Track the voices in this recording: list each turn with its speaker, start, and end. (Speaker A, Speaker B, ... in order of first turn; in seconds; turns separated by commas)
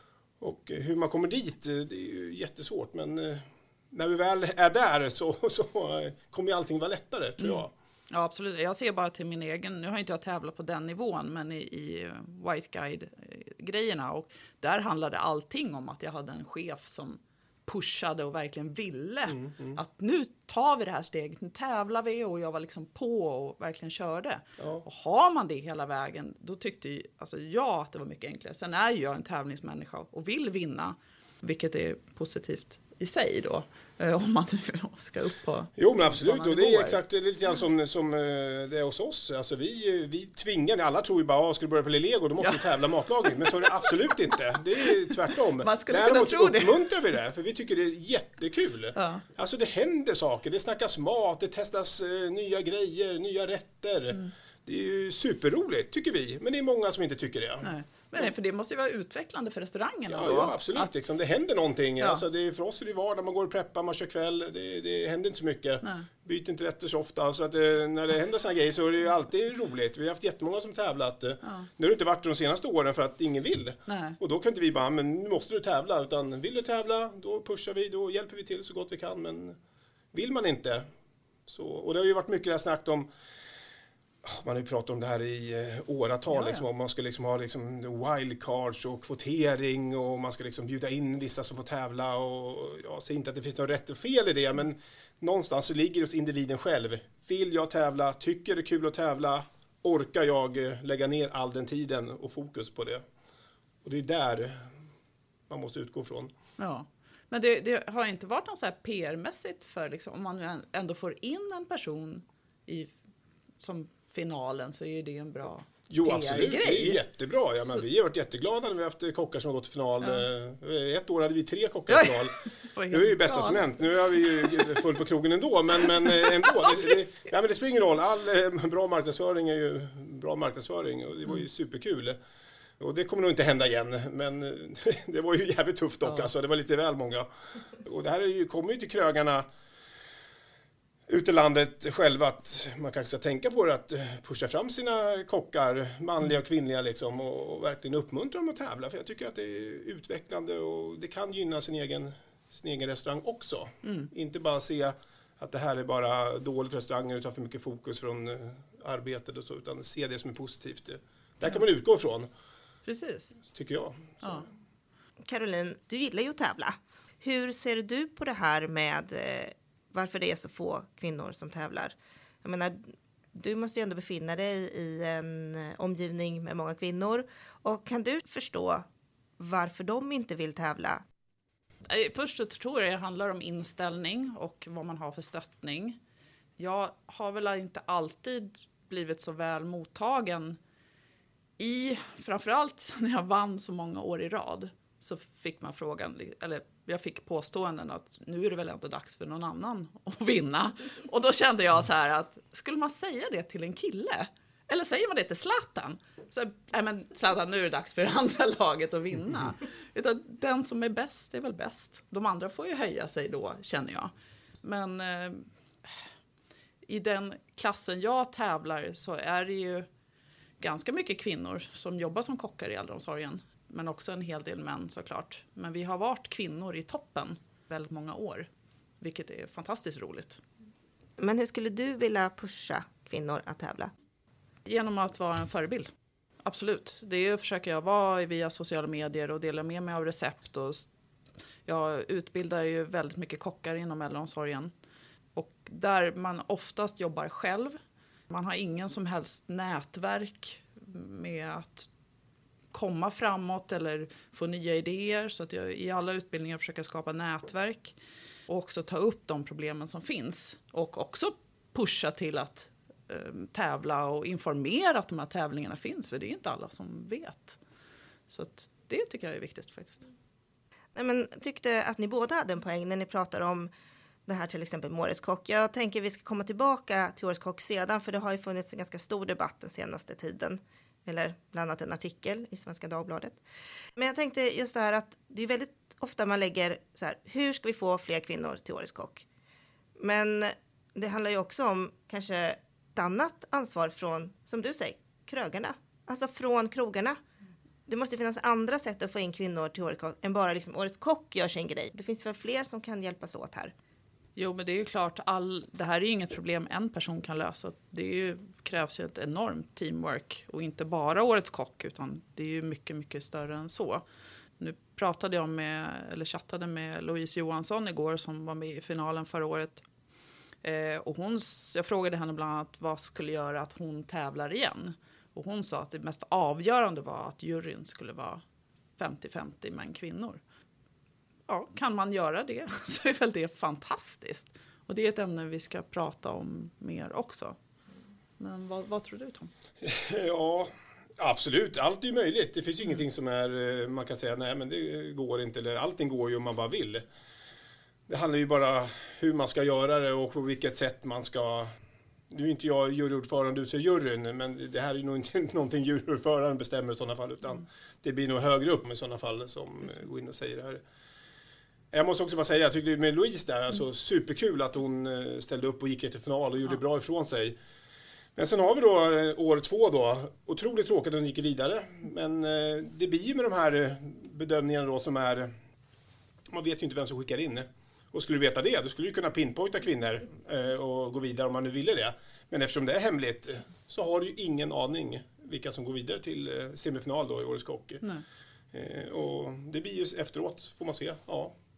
Speaker A: 0.4-7.7, Speaker B: 7.4-37.0, Speaker A: 19.3-19.8, Speaker A: 24.6-24.9, Speaker A: 35.8-57.7, Speaker B: 43.2-43.9, Speaker B: 44.9-46.9, Speaker B: 49.0-49.2, Speaker B: 57.6-60.9, Speaker A: 60.1-79.6, Speaker B: 73.9-74.2, Speaker A: 80.1-80.8, Speaker A: 81.5-83.1, Speaker A: 84.2-103.0, Speaker B: 86.3-86.6, Speaker A: 103.8-104.7, Speaker A: 105.5-106.3, Speaker B: 106.6-112.9, Speaker B: 113.6-117.0, Speaker A: 115.9-132.2, Speaker B: 121.9-123.7, Speaker A: 132.8-137.3, Speaker A: 137.8-139.4, Speaker A: 141.1-162.3, Speaker B: 153.8-154.1, Speaker B: 162.9-163.4, Speaker A: 163.5-164.5, Speaker C: 165.3-172.8, Speaker C: 173.3-178.8, Speaker C: 179.4-181.0, Speaker B: 181.9-186.0, Speaker B: 186.6-190.6, Speaker B: 191.6-214.1, Speaker B: 214.6-215.9, Speaker B: 216.9-219.9, Speaker B: 220.6-228.5, Speaker B: 229.0-230.4, Speaker C: 231.2-233.9, Speaker B: 234.7-235.9, Speaker B: 236.4-240.9, Speaker B: 241.7-244.7, Speaker B: 245.3-247.8, Speaker B: 248.3-251.9, Speaker B: 252.7-257.9, Speaker B: 258.5-267.6, Speaker B: 268.3-270.1, Speaker C: 270.9-273.7, Speaker C: 274.3-283.4, Speaker C: 284.0-289.3, Speaker C: 290.0-297.2, Speaker C: 297.9-303.7, Speaker B: 304.4-314.0, Speaker B: 314.6-319.8, Speaker B: 320.6-328.4, Speaker B: 329.0-330.4, Speaker B: 331.5-337.6, Speaker B: 338.4-339.5, Speaker A: 339.8-347.1, Speaker A: 348.1-351.7, Speaker A: 352.3-360.8, Speaker A: 361.9-367.6, Speaker A: 368.4-375.5, Speaker A: 376.5-388.1, Speaker A: 388.7-391.5